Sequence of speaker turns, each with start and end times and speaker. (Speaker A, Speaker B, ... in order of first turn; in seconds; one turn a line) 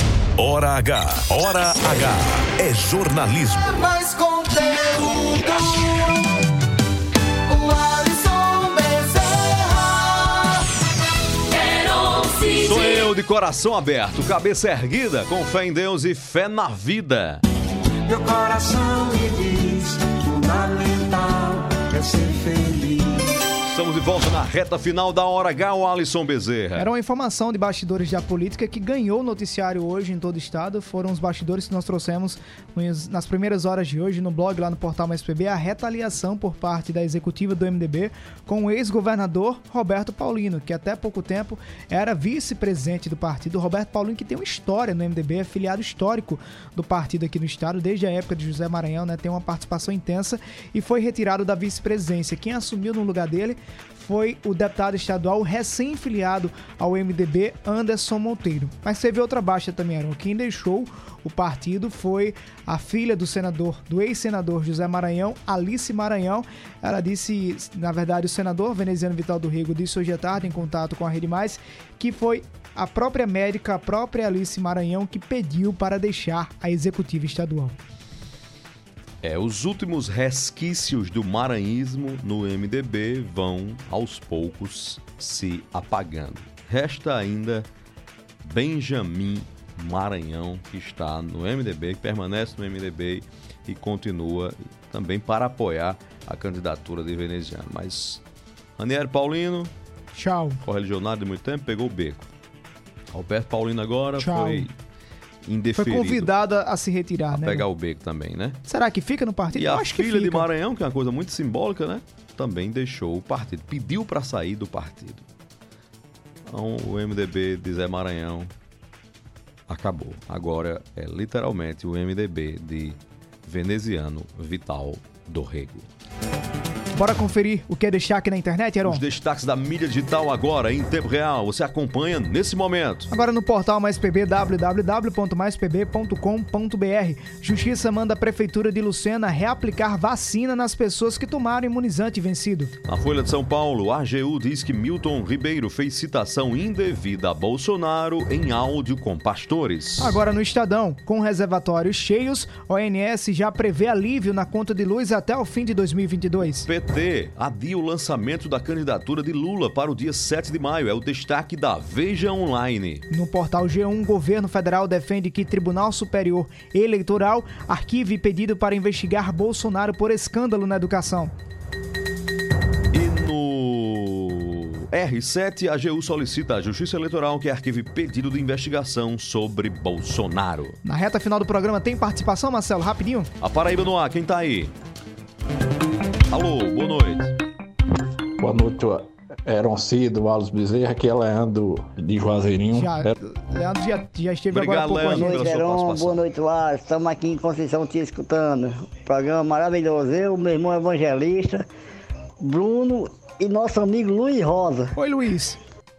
Speaker A: 0.4-3.7
Speaker B: 3.7-6.3
Speaker B: 7.5-10.6
Speaker B: 11.5-13.0
Speaker C: 12.6-17.4
Speaker B: 18.1-23.3
Speaker C: 23.7-26.9
Speaker D: 26.8-77.8
Speaker C: 79.2-87.7
Speaker C: 88.4-98.2
Speaker C: 98.8-99.7
Speaker D: 100.1-100.6
Speaker C: 100.6-102.3
Speaker C: 103.1-104.7
Speaker D: 104.2-104.7
Speaker C: 105.4-106.3
Speaker D: 105.8-107.7
Speaker C: 107.3-108.6
Speaker D: 108.7-110.5
Speaker C: 109.5-115.2
Speaker C: 116.5-118.5
Speaker C: 119.7-125.9
Speaker D: 127.0-129.0
Speaker C: 128.8-133.1
Speaker D: 133.1-142.7
Speaker C: 142.8-150.2
Speaker D: 150.0-156.7
Speaker C: 156.6-163.0
Speaker D: 163.1-171.3
Speaker C: 172.9-180.8
Speaker D: 180.8-183.3
Speaker C: 183.4-184.7
Speaker C: 186.3-187.3
Speaker E: 188.4-188.9
Speaker E: 189.5-192.9
Speaker D: 192.7-195.4
Speaker C: 194.5-196.2
Speaker F: 195.1-201.7
Speaker F: 202.4-204.9
Speaker D: 204.9-205.6